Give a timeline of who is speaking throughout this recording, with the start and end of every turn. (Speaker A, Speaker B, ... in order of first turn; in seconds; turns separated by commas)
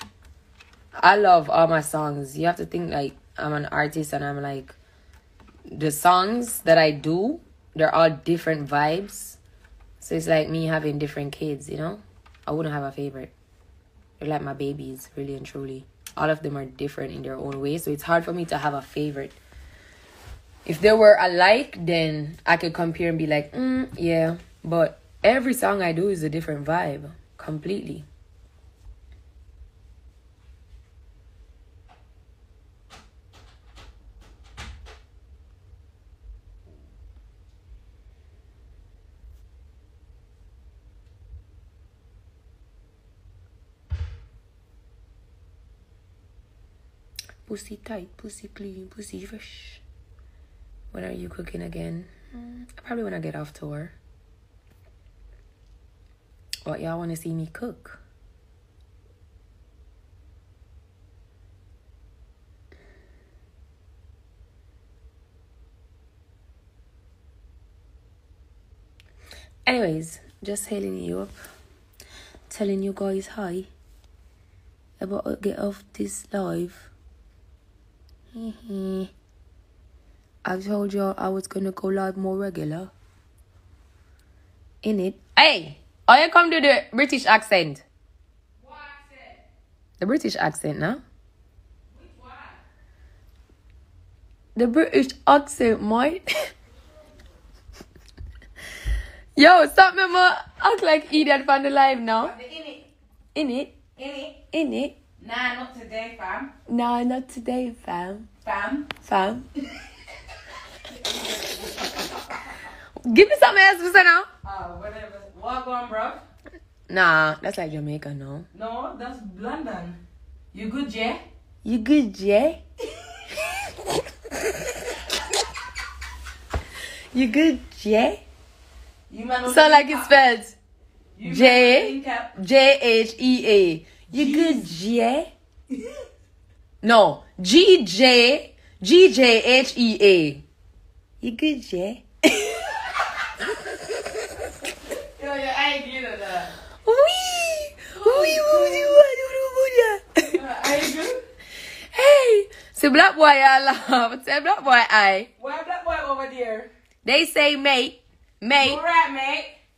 Speaker A: 1.0-4.8, Speaker A: 5.7-9.4, Speaker A: 10.0-13.3, Speaker A: 14.2-19.4, Speaker A: 20.6-28.1, Speaker A: 47.5-49.8, Speaker A: 50.9-53.9, Speaker A: 56.6-58.0, Speaker A: 69.7-71.4, Speaker A: 72.5-73.7, Speaker A: 75.0-76.9, Speaker A: 78.3-79.1, Speaker A: 80.4-82.9, Speaker A: 84.8-87.8, Speaker B: 88.6-89.3, Speaker A: 90.0-91.0, Speaker B: 91.9-92.5, Speaker A: 94.5-96.2, Speaker A: 99.3-102.3, Speaker B: 102.2-102.9, Speaker A: 103.3-103.8, Speaker B: 104.0-104.3, Speaker A: 104.5-105.0, Speaker B: 105.2-106.5, Speaker A: 106.7-108.3, Speaker B: 108.4-108.9, Speaker A: 109.0-109.5, Speaker B: 110.9-112.3, Speaker A: 113.0-114.3, Speaker B: 114.4-116.2, Speaker A: 116.9-118.5, Speaker B: 118.5-120.0, Speaker B: 120.5-121.2, Speaker A: 121.6-122.6, Speaker A: 127.1-128.2, Speaker B: 129.1-130.2, Speaker A: 129.4-130.6, Speaker B: 131.2-132.3, Speaker A: 131.2-135.3, Speaker B: 134.1-134.7, Speaker B: 135.7-136.0, Speaker A: 136.8-140.4, Speaker A: 141.2-142.8, Speaker B: 145.0-146.5, Speaker A: 146.6-150.4, Speaker B: 147.9-149.0, Speaker B: 150.3-151.2, Speaker A: 151.9-155.3, Speaker B: 155.4-156.7, Speaker A: 157.0-158.8, Speaker B: 158.6-159.5